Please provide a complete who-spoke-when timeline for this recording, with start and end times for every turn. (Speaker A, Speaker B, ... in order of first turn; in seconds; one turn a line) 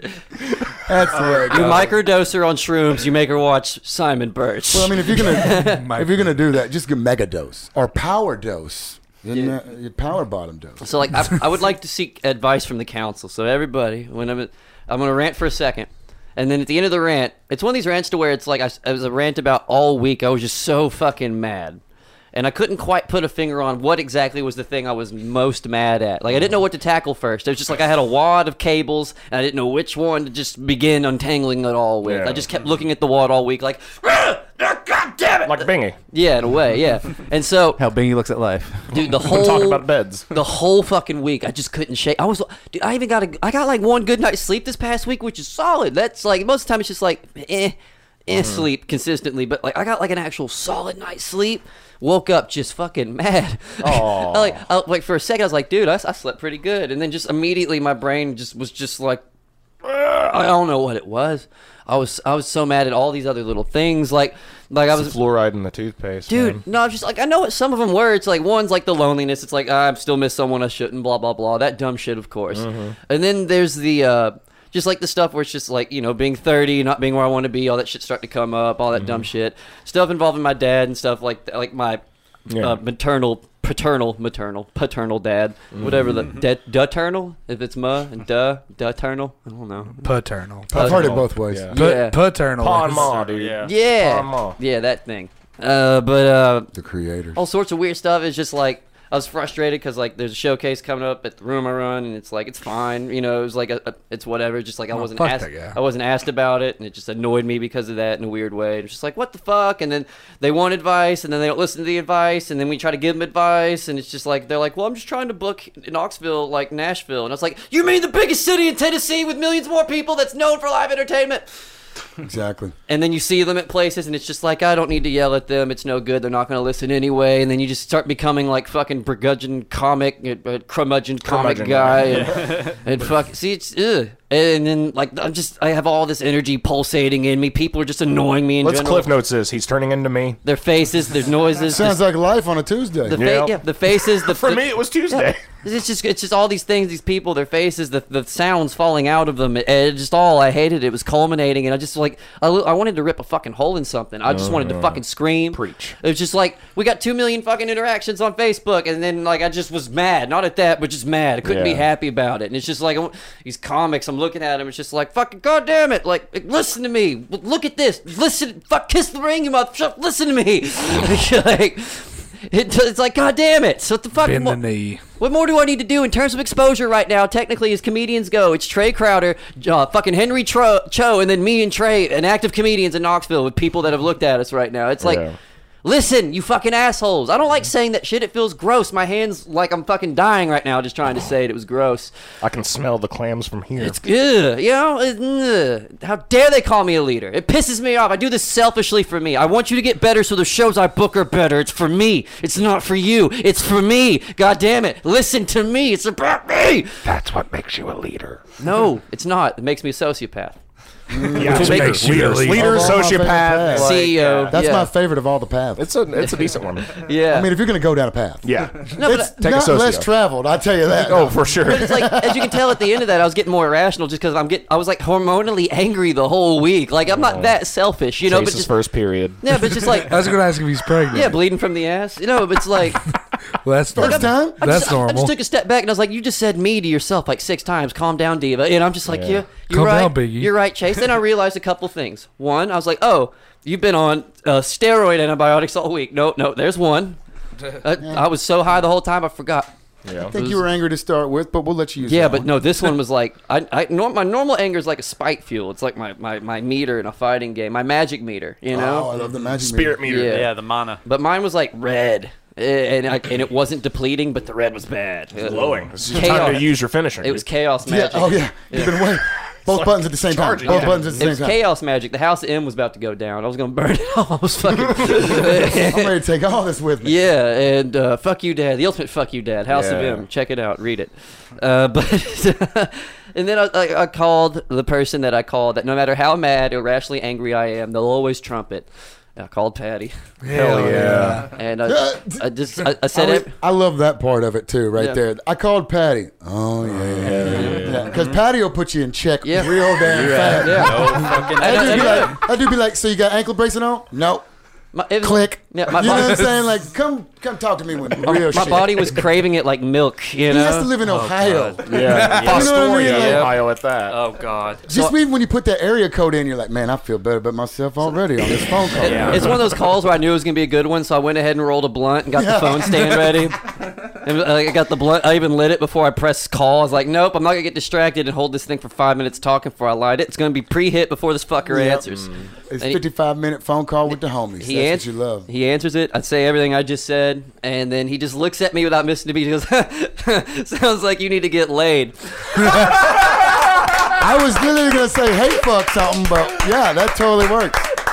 Speaker A: 0.4-0.9
Speaker B: 0.9-1.9
Speaker C: 1.1-1.8
Speaker D: 1.5-5.9
Speaker B: 4.7-11.2
Speaker E: 5.6-6.2
Speaker D: 9.3-9.6
Speaker D: 10.8-21.8
Speaker D: 22.3-37.8
Speaker A: 32.0-32.5
Speaker A: 35.4-36.0
Speaker F: 37.8-38.9
Speaker D: 38.9-47.8
Speaker A: 38.9-40.3
Speaker D: 48.3-59.2
Speaker A: 48.3-48.7
Speaker A: 53.8-54.6
Speaker D: 59.8-65.2
Speaker A: 64.9-66.6
Speaker D: 66.3-82.0
Speaker A: 72.5-73.0
Speaker A: 78.9-79.2
Speaker A: 82.5-82.8
Speaker D: 82.6-90.1
Speaker A: 85.7-86.3
Speaker E: 90.0-90.8
Speaker B: 90.7-91.7
Speaker A: 90.7-91.8
Speaker D: 90.7-91.0
Speaker E: 91.7-93.2
Speaker D: 91.7-92.2
Speaker A: 92.6-94.6
Speaker C: 92.8-93.7
Speaker D: 93.6-96.7
Speaker B: 96.7-97.4
Speaker D: 97.3-121.4
Speaker E: 104.9-105.8
Speaker B: 122.2-122.7
Speaker D: 122.9-139.1
Speaker A: 131.2-132.4
Speaker C: 132.1-132.8
Speaker A: 138.6-140.4
Speaker D: 140.4-142.0
Speaker B: 141.6-143.3
Speaker D: 143.1-174.6
Speaker A: 143.2-145.4
Speaker A: 154.3-156.0
Speaker A: 161.4-161.9
Speaker E: 174.2-175.0
Speaker D: 175.2-185.2
Speaker A: 185.0-185.4
Speaker D: 185.8-192.1
Speaker A: 192.4-194.0
Speaker D: 193.8-207.0
Speaker A: 207.1-208.4
Speaker D: 208.6-210.6
Speaker B: 211.1-215.9
Speaker D: 211.2-212.4
Speaker A: 211.3-214.1
Speaker E: 211.4-213.0
Speaker D: 213.8-214.9
Speaker C: 214.1-214.5
Speaker A: 215.8-217.1
Speaker D: 216.2-217.5
Speaker B: 217.2-222.5
Speaker A: 218.4-220.1
Speaker D: 218.9-219.4
Speaker A: 220.9-222.1
Speaker D: 221.7-228.7
Speaker A: 227.1-227.6
Speaker A: 228.2-230.0
Speaker D: 229.4-230.2
Speaker E: 229.9-231.4
Speaker D: 231.1-233.0
Speaker E: 233.6-235.3
Speaker B: 233.9-234.6
Speaker D: 234.0-247.2
Speaker A: 239.1-239.5
Speaker E: 239.7-240.5
Speaker D: 247.7-249.7
Speaker B: 248.0-248.3
Speaker A: 250.1-250.4
Speaker B: 250.3-252.6
Speaker D: 250.3-250.6
Speaker D: 252.0-259.1
Speaker B: 258.7-260.0
Speaker A: 259.4-260.5
Speaker D: 260.1-260.5
Speaker C: 260.3-261.0
Speaker D: 261.0-269.0
Speaker A: 265.4-267.4
Speaker B: 266.2-266.5
Speaker B: 267.8-271.6
Speaker A: 269.6-271.3
Speaker D: 270.6-276.2
Speaker B: 274.9-277.2
Speaker D: 277.0-290.1
Speaker A: 279.7-280.2
Speaker E: 290.4-291.5
Speaker A: 290.5-291.5
Speaker D: 291.4-293.5
Speaker B: 291.9-292.5
Speaker B: 293.1-304.4
Speaker D: 294.9-295.2
Speaker A: 296.9-298.1
Speaker D: 297.5-297.9
Speaker C: 297.6-298.4
Speaker D: 299.4-300.0
Speaker F: 300.0-301.2
Speaker C: 300.4-302.4
Speaker D: 300.6-302.4
Speaker D: 304.9-306.5
Speaker B: 305.2-309.2
Speaker E: 306.1-306.5
Speaker D: 308.2-310.9
Speaker B: 310.5-313.5
Speaker C: 311.0-314.9
Speaker A: 311.8-314.2
Speaker E: 312.0-312.6
Speaker D: 312.6-313.5
Speaker B: 314.9-319.5
Speaker D: 314.9-315.1
Speaker D: 319.0-333.0
Speaker A: 319.0-319.6
Speaker C: 319.0-319.4
Speaker B: 322.3-323.2
Speaker B: 331.7-332.1
Speaker B: 332.7-335.5
Speaker D: 334.6-342.9
Speaker B: 344.1-347.9